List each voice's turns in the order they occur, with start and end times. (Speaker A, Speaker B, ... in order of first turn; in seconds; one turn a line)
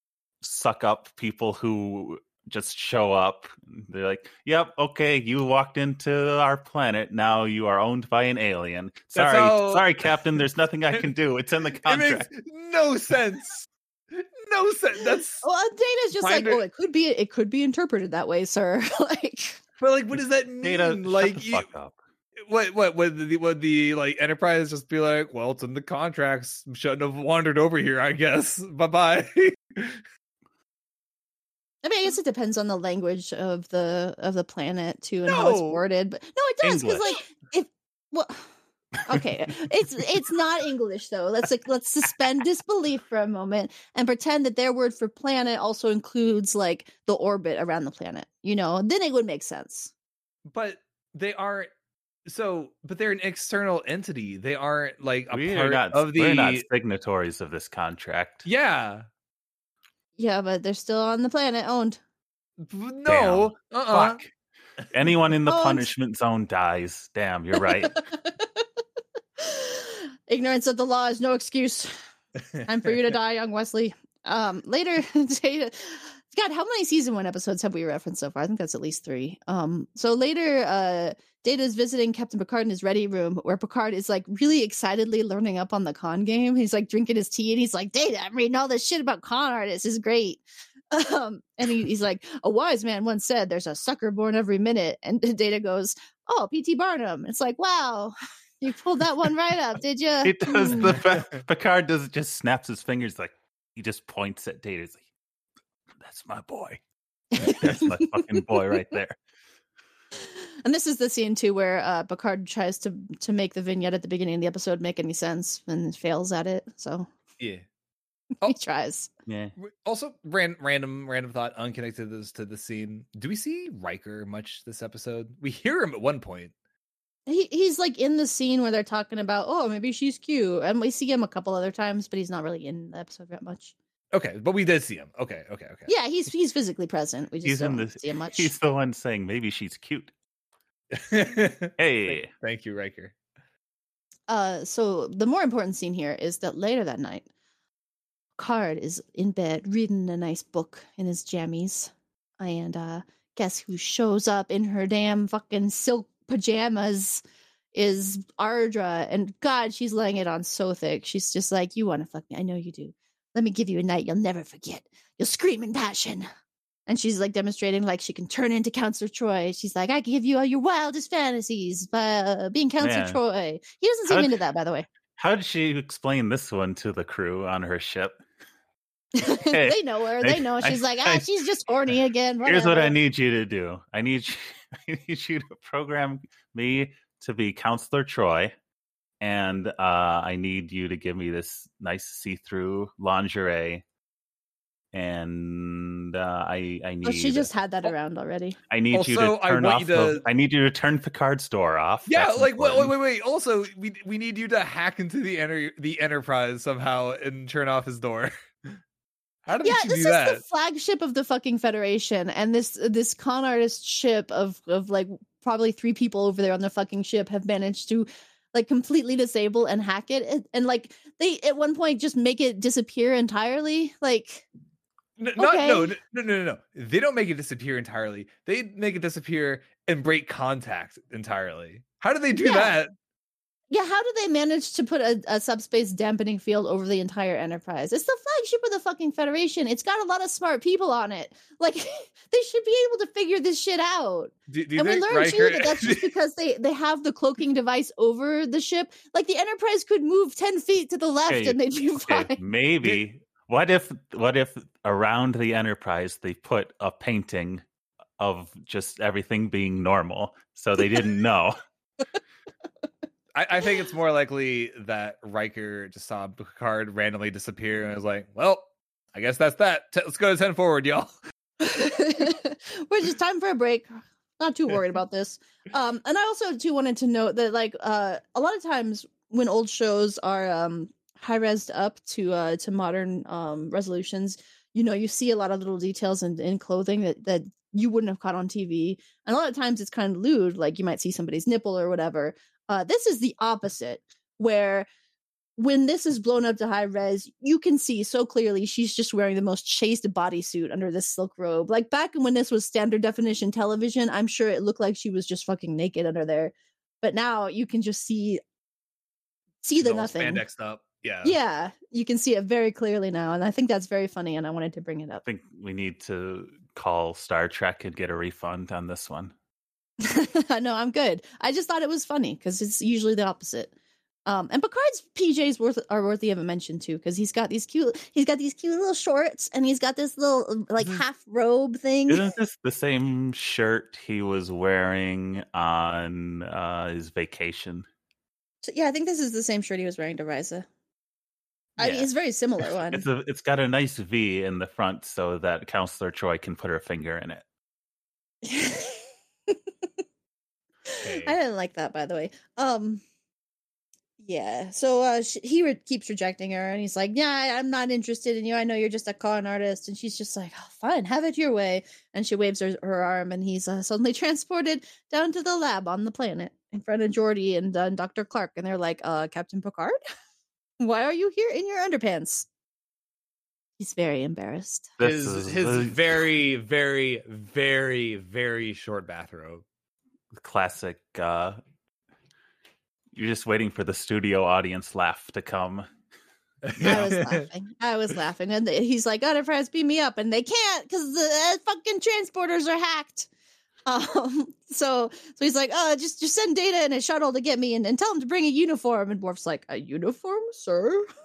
Speaker A: 0.4-12.3
Speaker B: 9.1-10.4
Speaker B: 11.8-13.7
Speaker B: 14.2-15.4
Speaker C: 15.4-19.6
Speaker B: 16.2-16.6
Speaker B: 19.8-21.7
Speaker A: 20.1-21.9
Speaker B: 22.4-30.0
Speaker C: 31.8-38.5
Speaker B: 35.2-35.8
Speaker A: 36.6-37.0
Speaker C: 39.0-49.9
Speaker B: 50.5-51.7
Speaker B: 52.2-56.6
Speaker A: 55.3-58.5
Speaker B: 58.4-59.1
Speaker C: 60.2-62.0
Speaker B: 62.6-64.2
Speaker A: 63.1-64.3
Speaker A: 64.9-68.0
Speaker C: 65.5-65.9
Speaker C: 67.6-68.6
Speaker C: 69.4-72.0
Speaker B: 72.5-73.1
Speaker C: 72.7-100.9
Speaker A: 100.2-105.0
Speaker B: 100.7-101.4
Speaker A: 106.0-106.8
Speaker C: 107.3-108.5
Speaker A: 107.4-109.2
Speaker C: 110.2-117.1
Speaker B: 117.4-117.6
Speaker C: 118.4-119.1
Speaker A: 119.3-119.5
Speaker B: 119.6-126.5
Speaker C: 127.3-133.7
Speaker B: 134.1-135.9
Speaker C: 135.9-138.5
Speaker A: 137.4-140.1
Speaker B: 140.9-143.1
Speaker A: 141.8-142.3
Speaker C: 144.3-147.2
Speaker C: 148.4-157.2
Speaker C: 157.7-166.2
Speaker C: 166.9-174.9
Speaker A: 172.8-173.2
Speaker A: 174.1-174.4
Speaker A: 175.2-178.2
Speaker C: 179.2-182.9
Speaker A: 179.5-181.3
Speaker A: 182.4-188.5
Speaker A: 189.2-193.8
Speaker A: 194.9-197.5
Speaker C: 197.0-198.6
Speaker A: 198.7-202.9
Speaker B: 198.9-200.2
Speaker B: 202.1-208.8
Speaker B: 209.4-210.4
Speaker C: 209.6-224.5
Speaker B: 225.2-232.9
Speaker C: 225.3-225.9
Speaker C: 232.3-232.7
Speaker C: 233.7-252.4
Speaker B: 244.5-246.1
Speaker A: 251.3-257.6
Speaker A: 258.2-261.5
Speaker B: 263.3-268.6
Speaker B: 269.1-271.1
Speaker C: 271.6-294.9
Speaker C: 295.6-308.4
Speaker C: 309.6-310.4
Speaker B: 309.8-311.4
Speaker C: 311.2-315.2
Speaker A: 315.2-319.3
Speaker C: 320.0-323.7
Speaker C: 324.2-332.3
Speaker A: 332.1-337.9
Speaker C: 338.6-340.7
Speaker A: 341.8-342.1
Speaker C: 341.8-343.1
Speaker A: 342.9-347.4
Speaker C: 348.4-349.6
Speaker C: 350.9-353.0
Speaker B: 350.9-351.4
Speaker C: 354.2-370.0
Speaker C: 370.8-372.4
Speaker C: 373.8-375.0
Speaker A: 375.0-376.0
Speaker B: 375.0-379.6
Speaker A: 380.3-381.6
Speaker A: 383.1-385.9
Speaker B: 386.6-387.5
Speaker C: 386.8-393.3
Speaker C: 393.9-401.1